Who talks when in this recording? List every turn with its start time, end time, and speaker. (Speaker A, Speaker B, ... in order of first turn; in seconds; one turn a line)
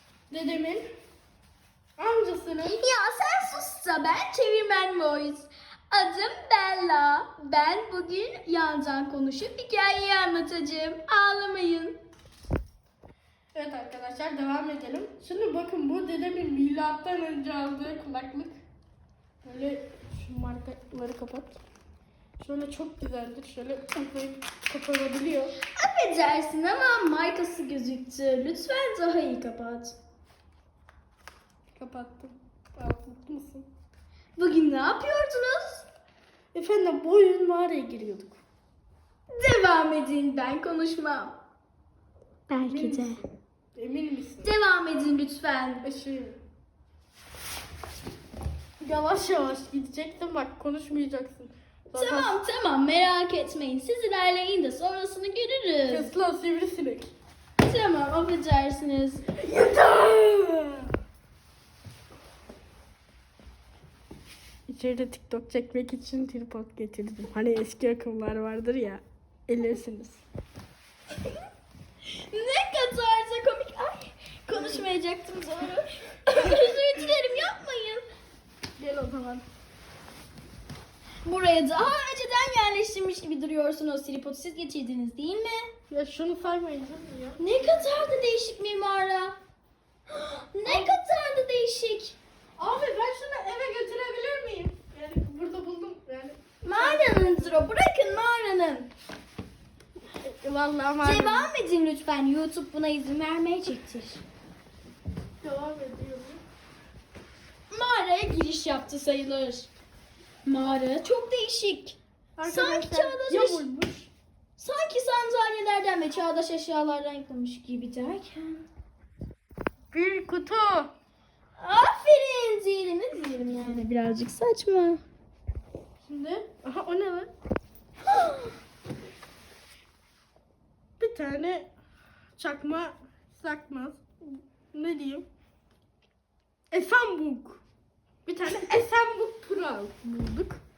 Speaker A: 0.3-0.8
Speaker A: 2.0-2.8
Speaker B: 2.8-12.0
Speaker A: 13.5-18.6
Speaker A: 19.4-21.6
Speaker A: 22.4-25.6
Speaker B: 25.7-29.9
Speaker A: 31.7-33.7
Speaker B: 34.4-35.9
Speaker A: 36.5-38.4
Speaker B: 39.3-41.4
Speaker B: 42.5-43.2
Speaker A: 42.6-44.5
Speaker B: 44.4-45.9
Speaker A: 45.8-46.4
Speaker A: 48.8-52.4
Speaker B: 51.9-56.1
Speaker A: 55.9-57.1
Speaker B: 57.6-59.3
Speaker A: 59.4-60.9
Speaker A: 64.7-70.2
Speaker B: 72.0-78.0
Speaker A: 78.8-79.4
Speaker B: 81.2-85.7
Speaker A: 85.9-87.4
Speaker B: 87.4-89.4
Speaker B: 90.1-92.2
Speaker A: 92.6-97.4
Speaker B: 96.6-98.9
Speaker A: 100.2-101.5
Speaker B: 101.0-104.2
Speaker A: 105.4-106.4
Speaker B: 107.7-109.7
Speaker B: 110.4-113.6
Speaker A: 112.4-114.1
Speaker B: 114.6-118.6
Speaker A: 119.9-120.9
Speaker B: 121.6-125.0
Speaker A: 126.0-127.3
Speaker A: 131.0-131.7
Speaker A: 132.4-134.1
Speaker A: 134.7-135.2
Speaker A: 136.7-137.6
Speaker A: 138.2-140.6